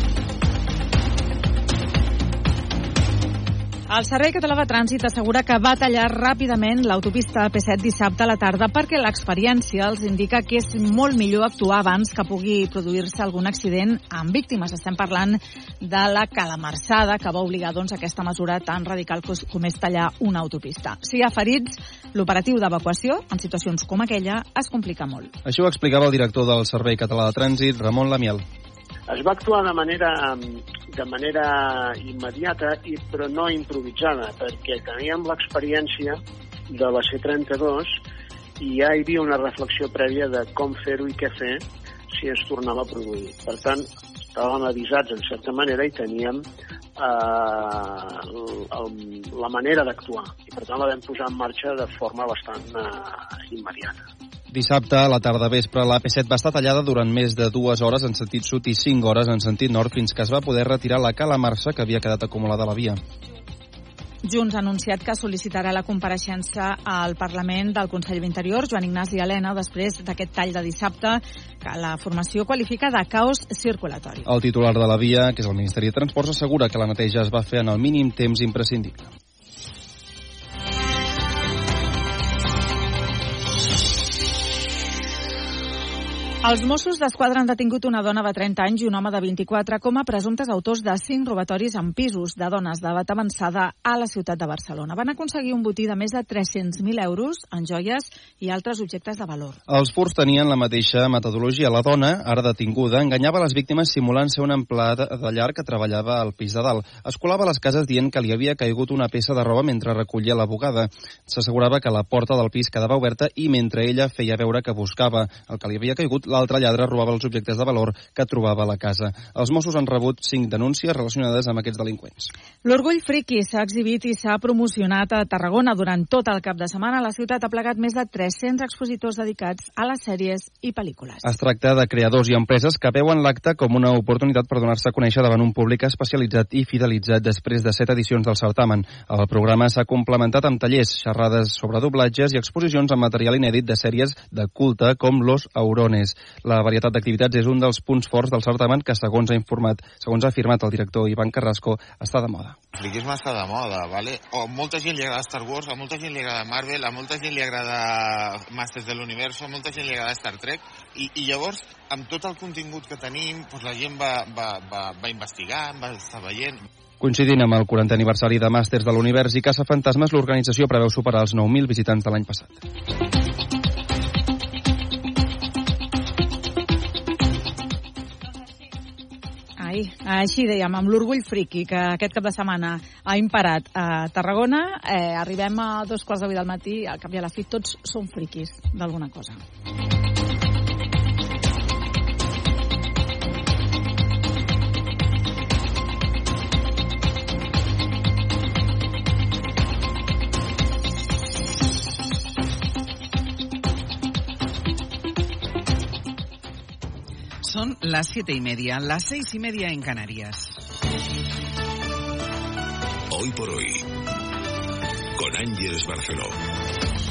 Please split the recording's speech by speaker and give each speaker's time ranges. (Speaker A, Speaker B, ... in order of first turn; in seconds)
Speaker A: 3.9-25.3, 64.2-74.3, 86.4-99.6, 122.6-131.2, 179.6-189.4
Speaker B: 25.4-28.4, 54.5-63.0, 74.2-79.1, 99.7-122.3, 131.2-152.6, 167.0-172.6
Speaker C: 29.1-36.2, 36.7-37.9, 38.6-41.6, 42.1-46.4, 47.0-54.0
Speaker D: 152.8-166.6
Speaker E: 207.4-210.5
Speaker F: 213.1-213.8, 215.2-216.4